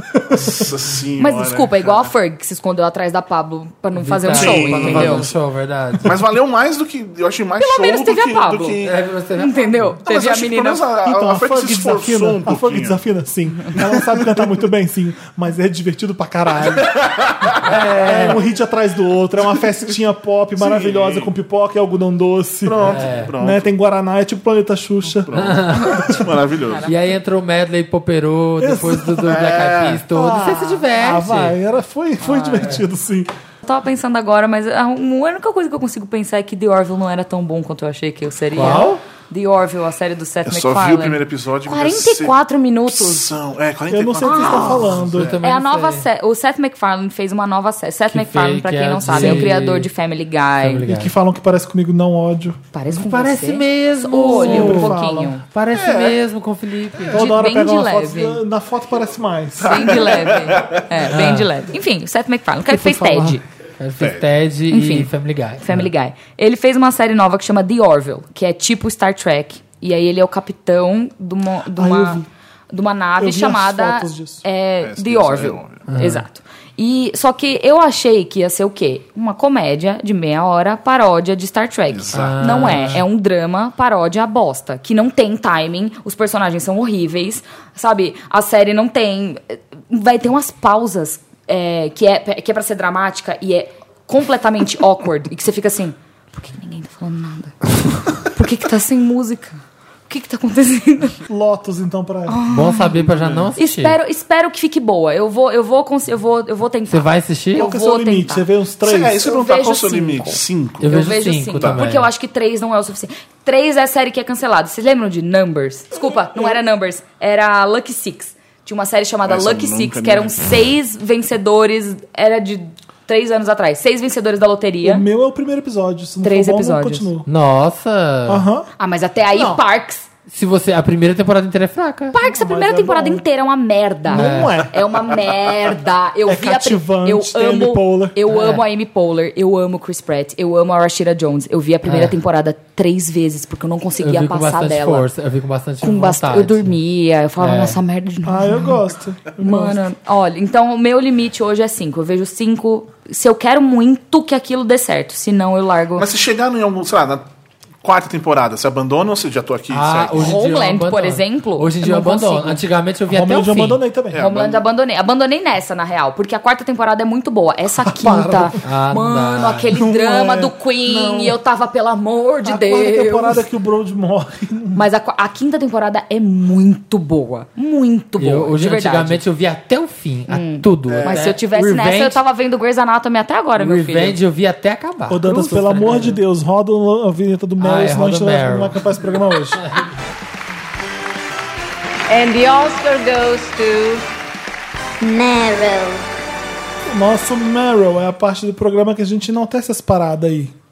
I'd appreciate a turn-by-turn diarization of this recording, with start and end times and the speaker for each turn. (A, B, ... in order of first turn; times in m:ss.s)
0:00.1-0:00.5 A
0:00.3-0:02.1 B
0:00.4-0:00.7 C
0:01.2-0:05.3 D
0:04.0-0:06.2 C
0:04.3-0:05.4 B
0:06.0-0:09.0 B
0:07.6-0:08.8 D
0:08.8-0:10.0 C
0:09.3-0:10.9 D
0:10.0-0:13.0 B
0:11.0-0:17.0 A
0:13.7-0:14.4 B
0:16.6-0:17.6 B
0:17.5-0:26.2 A
0:17.6-0:18.4 C
0:20.6-0:21.3 B
0:22.6-0:23.7 B
0:22.8-0:23.3 C
0:25.2-0:26.9 B
0:25.3-0:26.3 C
0:26.6-0:26.9 D
0:26.8-0:31.6 C
0:28.6-0:29.4 A
0:29.2-0:30.0 B
0:30.1-0:33.3 A
0:32.3-0:32.7 D
0:32.5-0:32.8 C
0:33.6-0:43.3 D
0:38.5-0:39.0 C
0:40.4-0:42.4 B
0:42.9-0:45.4 B
0:43.9-0:45.4 A
0:44.2-0:50.8 D
0:44.9-0:46.0 C
0:48.1-0:49.9 C
0:49.1-0:49.5 A
0:50.6-0:51.1 C
0:50.8-0:52.6 A
0:52.7-0:55.4 D
0:52.9-0:57.2 C
0:54.2-0:55.4 A
0:55.7-0:56.2 B
0:57.1-1:00.3 A
0:57.1-0:58.4 D
0:59.6-1:03.4 D
0:59.6-1:00.8 B
1:01.1-1:01.5 C
1:02.7-1:05.9 C
1:03.0-1:03.3 A
1:04.0-1:04.3 B
1:04.7-1:41.2 D
1:11.7-1:12.3 A
1:13.2-1:14.4 A
1:14.8-1:15.8 B
1:15.9-1:16.2 C
1:21.9-1:22.9 B
1:22.1-1:23.0 C
1:41.2-1:42.4 A
1:42.3-1:43.0 D
1:42.5-1:44.0 C
1:42.9-1:43.5 B
1:43.6-1:48.4 D
1:46.9-1:47.6 C
1:47.5-1:49.2 A
1:48.8-1:51.0 B
1:49.2-2:05.0 D
1:50.8-1:52.1 C
1:51.6-1:51.9 B
1:56.1-1:56.6 A
1:59.2-2:00.5 B
2:04.8-2:07.3 A
2:06.2-2:07.1 D
2:07.2-2:08.4 C
2:08.3-2:08.7 A
2:08.8-2:10.0 D
2:09.3-2:09.6 A
2:10.3-2:12.1 C
2:12.1-2:25.1 D
2:12.2-2:13.2 A
2:14.1-2:14.8 A
2:14.1-2:14.6 C
2:16.2-2:18.2 A
2:18.3-2:18.6 C
2:21.8-2:22.2 C
2:24.0-2:26.8 C
2:25.8-2:28.8 D
2:27.4-2:27.8 C
2:28.2-2:29.8 A
2:29.4-2:36.1 D
2:36.0-2:37.3 B
2:37.8-2:40.3 B
2:39.7-2:43.8 C
2:40.1-2:42.6 D
2:43.1-2:44.2 A
2:44.1-2:44.6 B
2:44.2-2:53.4 D
2:47.8-2:48.6 A
2:48.6-2:49.7 C
2:49.7-2:51.4 A
2:52.4-2:54.8 A
2:54.7-2:59.2 D
2:58.2-3:02.2 C
3:00.3-3:04.2 D
3:00.8-3:01.3 B
3:03.6-3:06.2 C
3:05.1-3:09.6 A
3:07.6-3:08.8 C
3:12.1-3:14.0 E
3:15.0-3:16.0 E
3:16.8-3:20.5 A